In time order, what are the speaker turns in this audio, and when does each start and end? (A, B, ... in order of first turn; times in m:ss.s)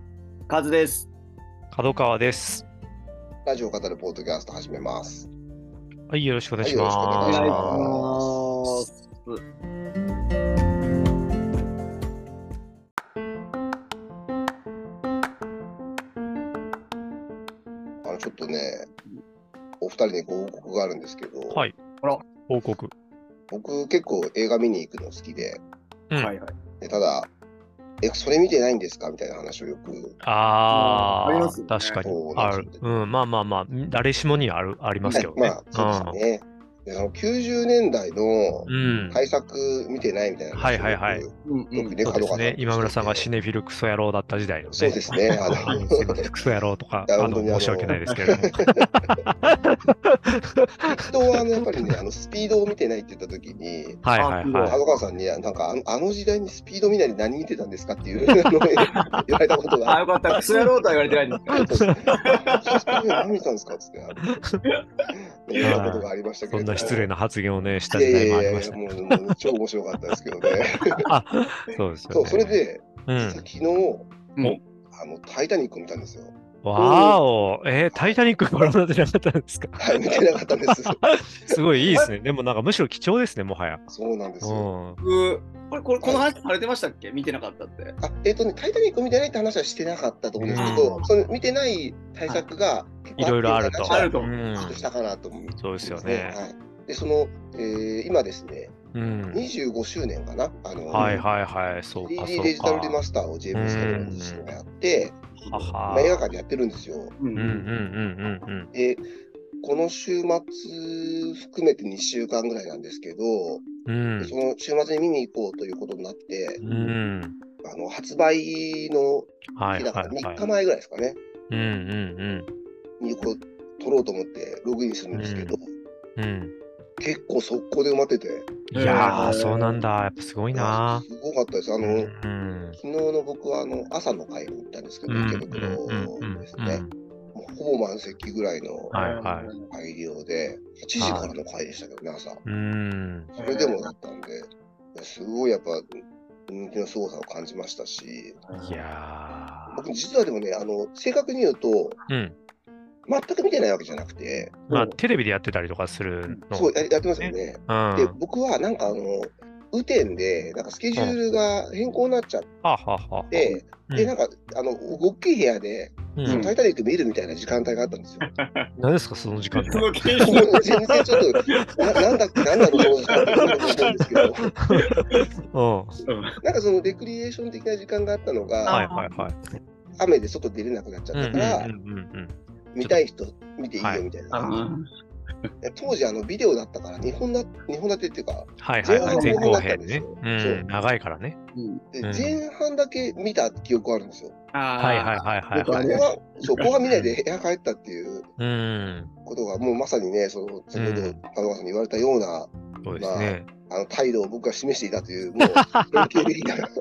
0:00.5-0:01.1 A
0:01.7-0:02.6 B
0:03.4-0:05.3 C
0:06.1-0:07.8 B
0:06.6-0:08.4 C
0:07.3-0:09.4 A
0:18.0-0:18.9 C
0:19.8-0:21.7 C
0:21.5-0:22.9 B
0:23.5-0:25.6 C
0:26.1-0:26.5 A
0:26.8-0:27.3 C
0:28.0-0:30.2 C
0:30.2-0:36.2 B
0:30.7-0:32.0 A
0:32.0-0:32.8 C
0:35.1-0:43.3 C
0:38.7-0:39.2 B
0:40.5-0:41.2 B
0:41.4-0:42.0 A
0:42.0-0:51.9 B
0:44.7-0:46.3 C
0:47.1-0:49.2 C
0:48.1-0:48.4 A
0:51.0-0:54.0 C
0:54.0-0:54.8 B
0:54.2-0:54.8 A
0:54.6-1:00.1 C
0:58.9-0:59.2 A
0:59.9-1:03.0 A
1:01.5-1:04.2 C
1:01.6-1:01.9 B
1:04.2-1:04.6 B
1:04.6-1:06.1 A
1:05.1-1:07.1 C
1:05.6-1:09.4 B
1:07.9-1:11.0 C
1:11.1-1:13.4 B
1:12.1-1:14.1 C
1:14.9-1:17.2 C
1:16.6-1:19.9 B
1:17.9-1:18.7 C
1:19.8-1:21.6 C
1:20.6-1:23.9 B
1:23.9-1:24.7 C
1:24.4-1:25.0 B
1:25.0-1:28.0 A
1:26.0-1:26.3 C
1:28.0-1:38.7 C
1:30.4-1:31.1 B
1:30.5-1:30.9 A
1:33.2-1:34.8 B
1:33.8-1:34.3 A
1:35.6-1:36.4 B
1:38.9-1:39.4 B
1:39.3-1:41.2 C
1:40.9-1:43.0 B
1:40.9-1:41.2 A
1:42.0-1:45.2 C
1:43.5-1:44.5 B
1:45.4-1:45.7 A
1:45.5-1:46.2 B
1:45.9-1:47.2 C
1:47.2-1:47.7 A
1:47.3-1:48.7 B
1:48.7-1:49.0 C
1:49.6-1:53.7 C
1:53.8-1:54.3 B
1:54.2-1:56.6 C
1:56.6-1:57.4 B
1:56.6-1:56.9 A
1:57.6-2:01.2 C
1:59.6-2:00.4 B
2:01.5-2:02.5 B
2:03.0-2:05.6 C
2:05.1-2:05.6 B
2:06.2-2:06.5 B
2:07.0-2:09.2 C
2:08.7-2:11.0 B
2:08.7-2:09.8 A
2:10.5-2:12.1 C
2:11.8-2:12.8 B
2:12.8-2:19.0 C
2:15.1-2:16.9 B
2:18.9-2:19.7 A
2:18.9-2:19.5 B
2:19.7-2:22.4 C
2:21.0-2:21.3 B
2:22.4-2:23.3 B
2:23.4-2:23.8 A
2:23.4-2:28.4 C
2:28.4-2:28.8 A
2:28.6-2:29.8 B
2:29.7-2:32.0 C
2:32.1-2:32.4 B
2:33.1-2:34.6 C
2:34.7-2:38.2 B
2:34.7-2:35.0 A
2:36.5-2:42.5 C
2:42.6-2:44.1 B
2:43.3-2:48.3 C
2:46.2-2:46.5 B
2:46.2-2:46.5 A
2:48.2-2:48.7 A
2:48.8-2:49.9 B
2:49.6-2:51.8 A
2:50.2-2:54.5 C
2:52.7-2:55.3 A
2:54.4-2:56.0 B
2:56.0-2:56.4 A
2:56.4-2:58.8 C
2:58.6-2:59.3 A
2:58.7-2:59.4 B
3:00.0-3:01.7 C
3:01.1-3:03.0 B
3:02.7-3:04.6 C
3:04.3-3:04.9 A
3:05.6-3:10.6 C
3:08.6-3:11.4 B
3:09.0-3:09.5 A
3:11.5-3:11.8 A
3:11.9-3:14.3 C
3:12.0-3:12.4 B
3:14.5-3:16.7 A
3:14.8-3:16.0 B
3:15.7-3:18.3 C
3:16.8-3:17.2 B
3:18.4-3:19.1 B
3:19.2-3:26.7 C
3:20.7-3:21.2 B
3:22.8-3:23.5 B
3:25.4-3:26.1 B